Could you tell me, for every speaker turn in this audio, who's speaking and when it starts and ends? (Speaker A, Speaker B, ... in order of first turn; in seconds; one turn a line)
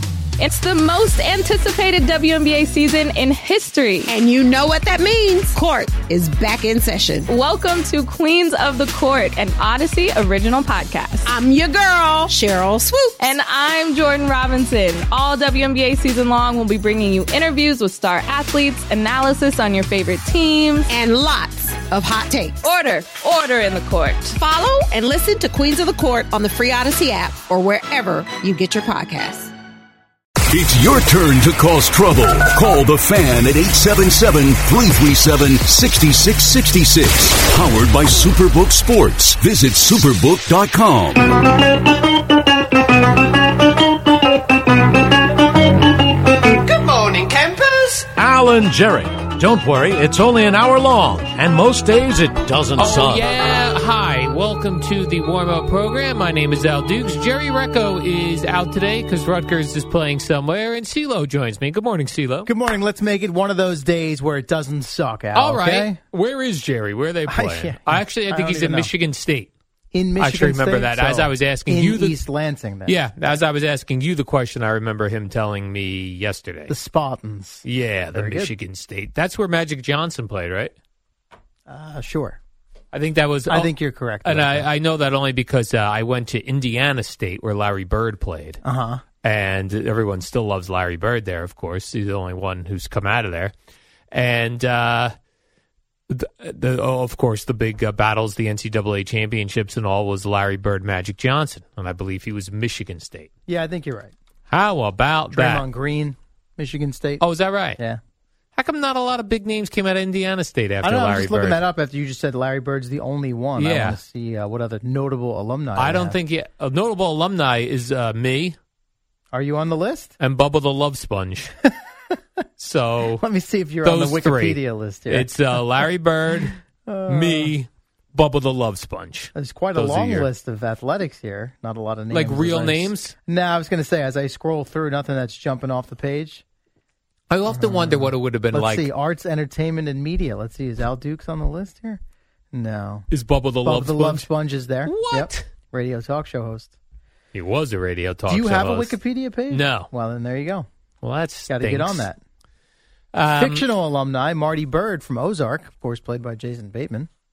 Speaker A: 0.4-4.2
Speaker B: 4.1-7.3
Speaker A: 7.3-11.4
Speaker B: 11.3-13.3
Speaker A: 13.2-20.9
Speaker B: 20.9-22.6
Speaker A: 22.6-24.4
Speaker B: 24.4-29.5
Speaker C: 30.5-41.2
Speaker D: 46.7-53.3
Speaker E: 52.8-62.5
Speaker F: 62.5-66.0
Speaker E: 65.3-69.5
Speaker F: 67.3-68.9
Speaker F: 69.9-73.4
Speaker E: 70.2-72.2
Speaker E: 72.9-76.8
Speaker F: 76.7-78.5
Speaker E: 77.6-80.7
Speaker F: 81.7-82.4
Speaker E: 82.9-88.6
Speaker F: 83.5-84.7
Speaker F: 88.6-89.0
Speaker E: 89.2-93.5
Speaker E: 94.1-95.1
Speaker E: 96.1-103.3
Speaker F: 103.5-104.1
Speaker E: 104.5-105.7
Speaker F: 105.3-108.0
Speaker E: 107.2-107.8
Speaker E: 108.6-111.6
Speaker F: 110.8-116.2
Speaker E: 113.6-114.0
Speaker E: 115.8-118.6
Speaker F: 119.3-120.2
Speaker E: 120.2-121.5
Speaker E: 122.6-123.2
Speaker F: 123.2-125.8
Speaker E: 123.8-126.6
Speaker F: 126.9-127.5
Speaker E: 127.1-130.3
Speaker F: 129.3-136.4
Speaker E: 132.1-133.1
Speaker E: 137.3-138.9
Speaker F: 137.5-142.0
Speaker F: 142.5-143.1
Speaker E: 143.1-144.3
Speaker F: 143.6-146.8
Speaker E: 144.9-145.5
Speaker E: 147.3-149.0
Speaker F: 148.3-150.7
Speaker E: 149.5-149.9
Speaker E: 151.0-152.1
Speaker F: 151.5-152.2
Speaker E: 153.1-153.7
Speaker F: 153.3-157.1